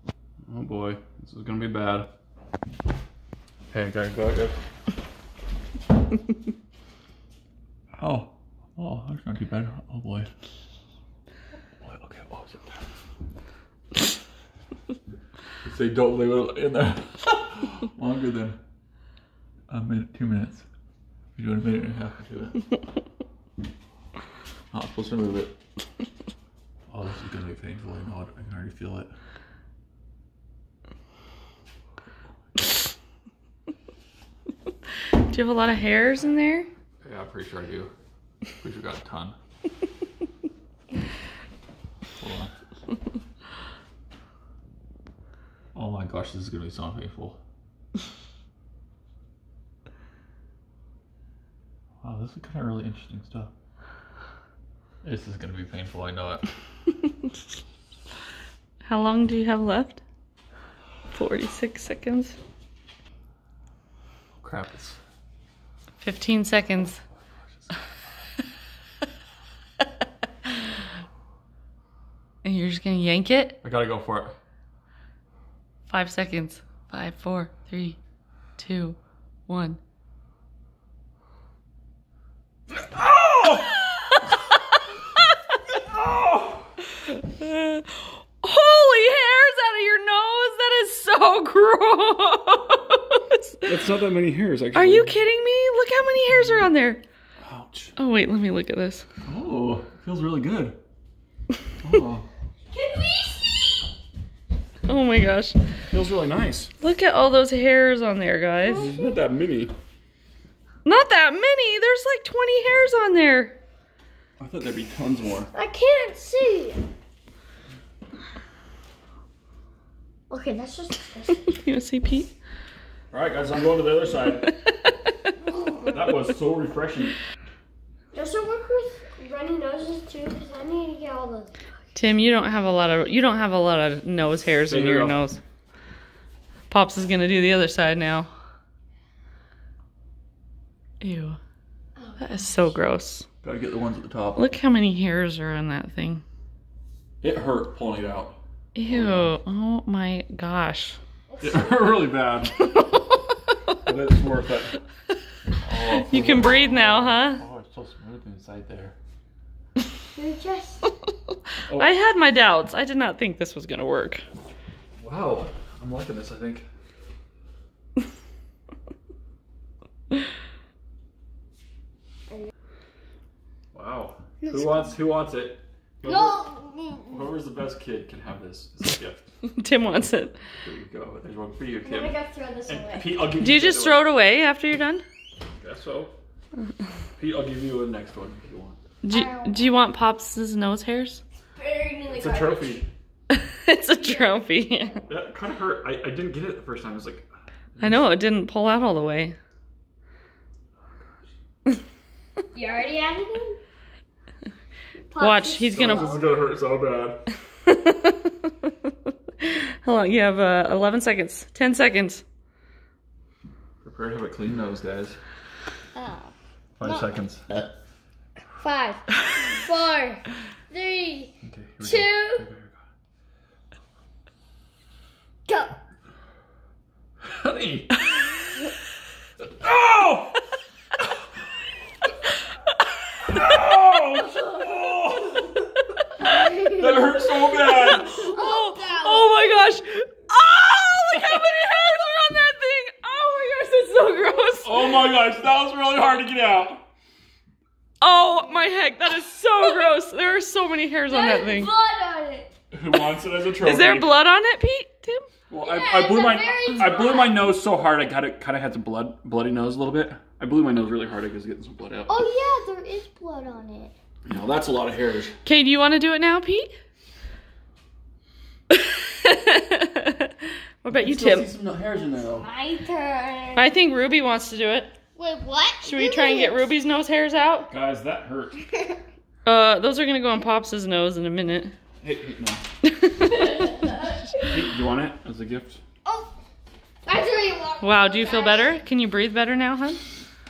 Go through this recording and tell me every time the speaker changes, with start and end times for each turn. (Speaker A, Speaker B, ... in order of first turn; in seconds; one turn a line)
Speaker A: 0.5-2.1
Speaker A: 3.7-4.6
Speaker A: 7.9-10.3
Speaker A: 11.8-12.6
Speaker A: 15.6-18.6
Speaker A: 19.7-20.6
Speaker A: 21.3-22.6
Speaker A: 24.7-25.5
Speaker A: 26.9-29.1
Speaker B: 35.1-36.7
Speaker A: 37.0-37.9
Speaker A: 38.6-39.4
Speaker A: 42.2-42.5
Speaker A: 45.7-47.4
Speaker A: 52.0-53.5
Speaker A: 55.0-56.5
Speaker B: 58.8-60.0
Speaker B: 61.1-62.3
Speaker A: 64.4-65.0
Speaker B: 66.0-67.0
Speaker B: 72.4-73.6
Speaker A: 73.6-74.4
Speaker B: 75.9-78.0
Speaker B: 78.6-79.8
Speaker A: 82.7-83.8
Speaker A: 85.7-86.7
Speaker B: 87.1-93.8
Speaker A: 93.6-95.2
Speaker B: 94.7-97.0
Speaker A: 97.4-97.9
Speaker B: 98.0-99.0
Speaker A: 99.2-100.8
Speaker A: 101.8-102.2
Speaker C: 102.7-103.9
Speaker B: 104.8-105.6
Speaker A: 105.9-106.7
Speaker B: 106.8-108.9
Speaker A: 108.7-109.7
Speaker C: 108.8-109.1
Speaker B: 110.8-113.6
Speaker A: 114.4-115.5
Speaker C: 115.5-116.8
Speaker C: 120.3-121.5
Speaker B: 121.5-122.3
Speaker A: 123.1-124.5
Speaker C: 125.5-125.9
Speaker A: 125.8-127.2
Speaker C: 128.1-131.6
Speaker B: 131.9-135.4
Speaker A: 134.7-135.2
Speaker B: 136.7-138.3
Speaker B: 141.0-141.4
Speaker C: 142.0-142.4
Speaker B: 142.2-143.3
Speaker A: 143.4-144.4
Speaker B: 144.3-146.2
Speaker A: 147.2-148.4
Speaker B: 148.8-151.0
Speaker A: 148.9-149.3
Speaker C: 151.3-152.0
Speaker A: 151.4-152.7
Speaker A: 153.8-154.8
Speaker A: 155.5-159.0
Speaker B: 155.9-157.4
Speaker C: 160.2-160.9
Speaker B: 161.7-164.2
Speaker A: 165.0-166.7
Speaker A: 173.7-176.5
Speaker C: 174.4-174.8
Speaker C: 176.0-177.3
Speaker A: 177.1-179.2
Speaker B: 179.6-180.3
Speaker A: 180.6-182.2
Speaker C: 181.8-183.1
Speaker A: 182.7-184.1
Speaker B: 183.3-185.0
Speaker A: 185.6-186.2
Speaker A: 187.2-188.8
Speaker B: 189.0-191.2
Speaker C: 189.1-189.7
Speaker C: 191.6-192.8
Speaker A: 192.1-192.9
Speaker B: 193.3-195.0
Speaker C: 193.9-194.5
Speaker A: 195.1-198.1
Speaker B: 197.8-199.3
Speaker C: 202.5-203.6
Speaker C: 205.1-206.3
Speaker B: 205.2-206.2
Speaker A: 205.7-207.2
Speaker B: 207.7-208.5
Speaker B: 209.4-212.2
Speaker A: 213.8-215.2
Speaker C: 215.9-217.1
Speaker A: 216.8-217.4
Speaker C: 218.6-222.5
Speaker A: 221.4-222.8
Speaker C: 225.5-225.8
Speaker A: 227.2-228.0
Speaker A: 229.6-230.4
Speaker A: 233.2-235.6
Speaker A: 236.5-238.3
Speaker B: 237.6-245.1
Speaker C: 238.1-239.5
Speaker A: 244.6-246.8
Speaker B: 248.0-251.7
Speaker C: 251.1-252.5
Speaker A: 252.7-254.1
Speaker B: 253.6-255.2
Speaker A: 255.5-262.2
Speaker C: 255.6-257.4
Speaker C: 262.1-263.9
Speaker A: 264.2-265.4
Speaker B: 265.4-266.7
Speaker B: 268.7-270.3
Speaker B: 270.8-271.5
Speaker A: 270.9-272.5
Speaker C: 272.3-273.6
Speaker B: 273.5-274.9
Speaker C: 275.1-276.7
Speaker B: 275.9-277.7
Speaker A: 277.7-278.6
Speaker B: 279.4-281.7
Speaker A: 282.0-282.6
Speaker B: 282.9-283.6
Speaker C: 283.6-283.9
Speaker A: 284.4-285.8
Speaker C: 286.1-286.3
Speaker C: 287.1-288.8
Speaker B: 287.8-290.0